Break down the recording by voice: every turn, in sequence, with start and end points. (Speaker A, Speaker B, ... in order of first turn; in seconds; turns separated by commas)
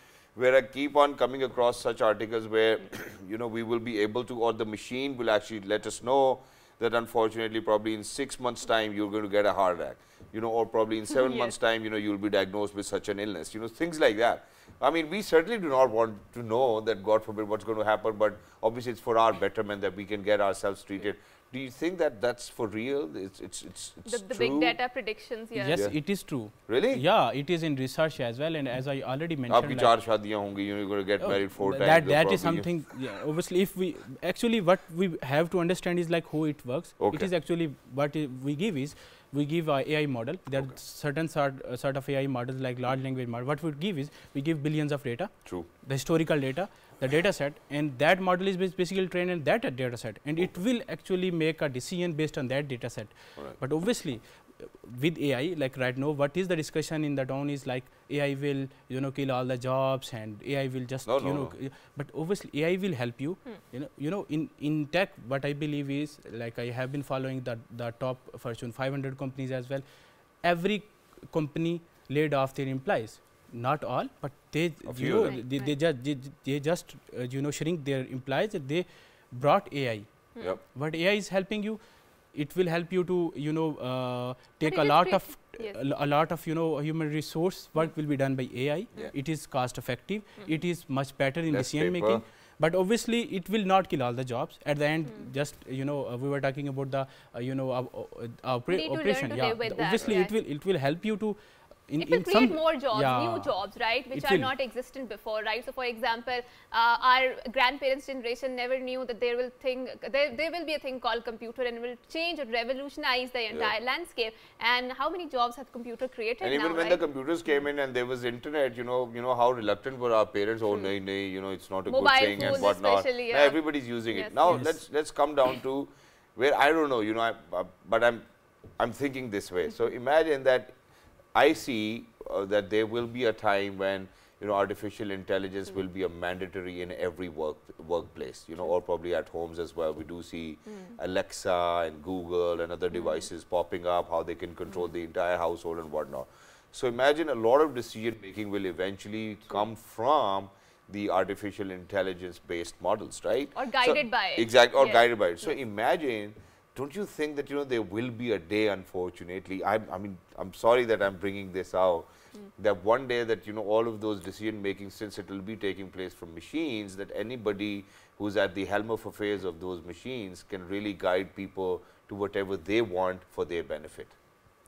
Speaker A: 0.3-24.8, Speaker B: 24.1-25.8, Speaker C: 25.6-29.9, Speaker A: 26.5-27.0, Speaker A: 29.5-32.7, Speaker C: 31.2-69.8, Speaker A: 37.0-37.3, Speaker A: 61.0-61.5, Speaker C: 70.4-101.4, Speaker A: 74.8-75.4, Speaker B: 75.1-75.7, Speaker B: 84.6-85.8, Speaker A: 91.5-92.2, Speaker B: 98.7-100.3, Speaker C: 101.9-103.5, Speaker B: 102.0-117.0, Speaker C: 104.1-104.5, Speaker A: 116.4-128.2, Speaker B: 121.9-123.6, Speaker C: 122.4-122.7, Speaker B: 124.1-124.7, Speaker C: 124.5-124.7, Speaker A: 128.8-130.7, Speaker A: 131.3-174.1, Speaker B: 140.7-141.0, Speaker B: 142.9-143.2, Speaker B: 153.5-155.6